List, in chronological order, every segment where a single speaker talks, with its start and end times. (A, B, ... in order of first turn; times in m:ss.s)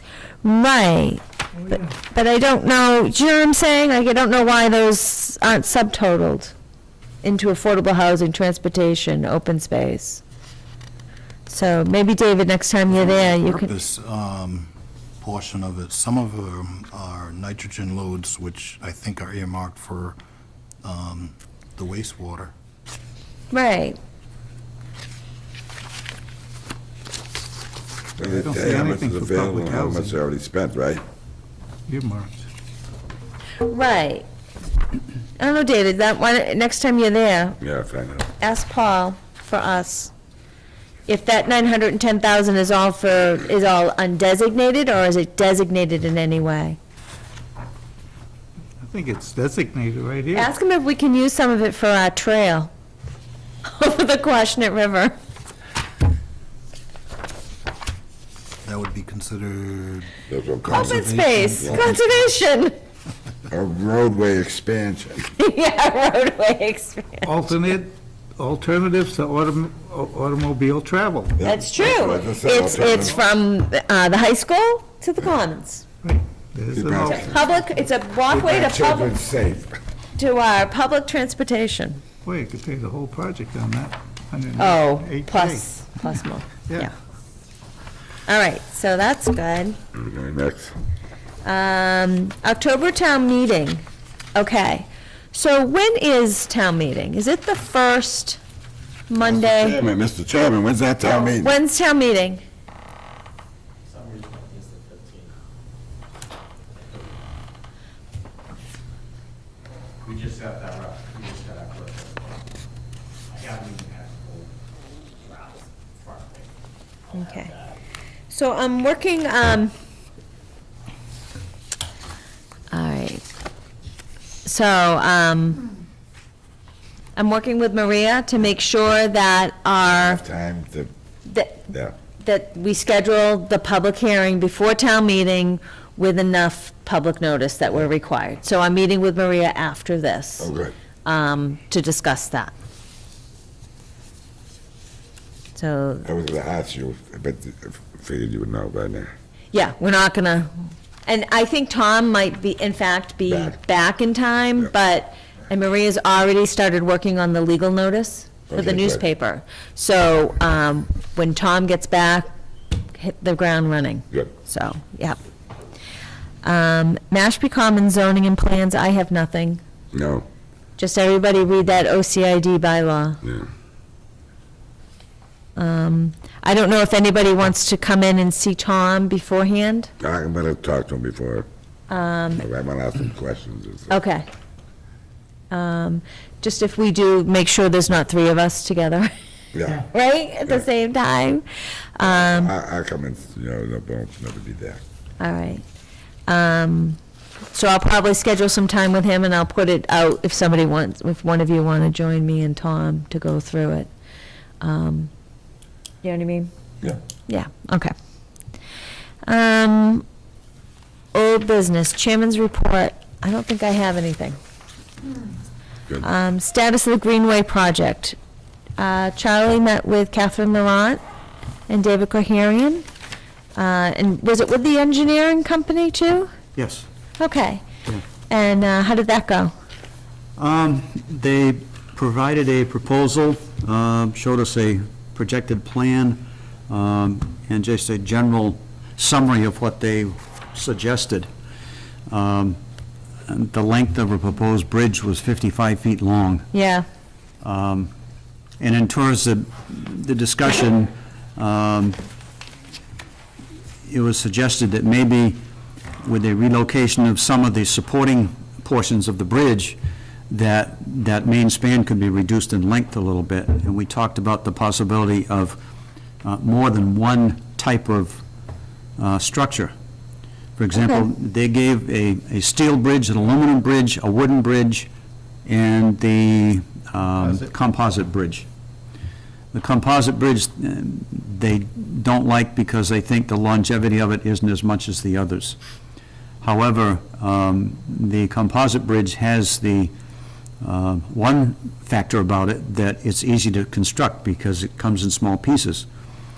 0:00.4-0:01.2 A
0:01.8-0:06.5 A
0:07.2-0:10.2 A
0:11.5-0:13.7 A
0:13.4-0:14.7 B
0:15.2-0:20.2 B
0:20.8-0:22.5 B
0:23.5-0:24.0 A
0:28.2-0:31.0 C
0:28.2-0:30.2 D
0:31.9-0:32.4 D
0:33.6-0:34.3 A
0:35.4-0:37.6 A
0:37.6-0:38.3 C
0:38.4-0:40.1 A
0:41.1-0:46.8 A
0:48.8-0:50.5 D
0:50.3-0:52.7 A
0:53.6-0:55.2 A
0:58.6-1:00.1 B
1:00.3-1:02.0 C
1:00.6-1:01.9 B
1:00.7-1:02.8 A
1:03.5-1:05.3 C
1:05.4-1:07.5 A
1:07.2-1:11.4 D
1:11.4-1:13.2 C
1:11.4-1:15.8 A
1:16.0-1:17.3 D
1:16.7-1:17.4 C
1:17.0-1:19.1 A
1:18.2-1:19.8 C
1:20.2-1:22.0 A
1:22.2-1:25.7 D
1:24.6-1:26.9 A
1:28.3-1:29.8 A
1:30.0-1:30.8 C
1:31.4-1:33.8 A
1:34.4-1:38.4 A
1:39.1-1:39.8 A
1:39.2-1:41.5 C
1:41.2-1:42.4 A
1:50.1-1:52.0 E
1:53.5-1:54.2 E
1:57.1-1:57.5 A
1:58.3-1:59.7 A
2:02.7-2:03.2 A
2:04.4-2:05.6 A
2:07.2-2:10.2 A
2:09.9-2:10.9 C
2:11.3-2:11.7 A
2:12.2-2:20.5 A
2:20.4-2:20.7 C
2:21.0-2:22.5 A
2:25.6-2:26.1 A
2:26.0-2:29.1 C
2:29.5-2:30.5 A
2:31.1-2:42.3 A
2:33.3-2:33.6 C
2:38.5-2:39.0 C
2:43.0-2:45.2 A
2:46.4-2:49.6 A
2:49.9-2:50.3 C
2:50.8-2:53.2 A
2:55.6-2:59.9 A
3:00.0-3:01.5 C
3:01.9-3:02.4 A
3:02.4-3:04.0 C
3:03.9-3:04.2 A
3:05.5-3:09.1 A
3:09.5-3:09.9 C
3:09.9-3:11.5 A
3:12.0-3:12.5 A
3:12.0-3:14.8 C
3:15.2-3:15.6 A
3:16.3-3:17.0 A
3:17.5-3:23.9 A
3:24.6-3:25.1 A
3:26.0-3:26.5 A
3:27.3-3:27.9 A
3:29.3-3:30.0 A
3:31.1-3:34.4 A
3:36.0-3:38.2 A
3:38.8-3:41.0 A
3:41.7-3:42.9 A
3:43.6-3:46.3 A
3:46.6-3:46.9 F
3:47.2-3:47.6 A
3:48.3-3:49.5 A
3:50.4-4:01.3 F
4:02.1-4:02.6 F
4:03.3-4:06.5 F
4:06.5-4:06.9 A
4:07.4-4:07.9 F
4:08.6-4:12.0 F
4:13.9-4:15.4 F
4:16.0-4:19.8 F
4:20.3-4:25.6 F
4:26.2-4:28.2 F
4:29.0-4:29.7 F
4:30.6-4:34.9 F
4:35.5-4:38.5 F
4:39.5-4:45.6 F
4:46.4-4:49.9 F
4:50.6-4:55.9 F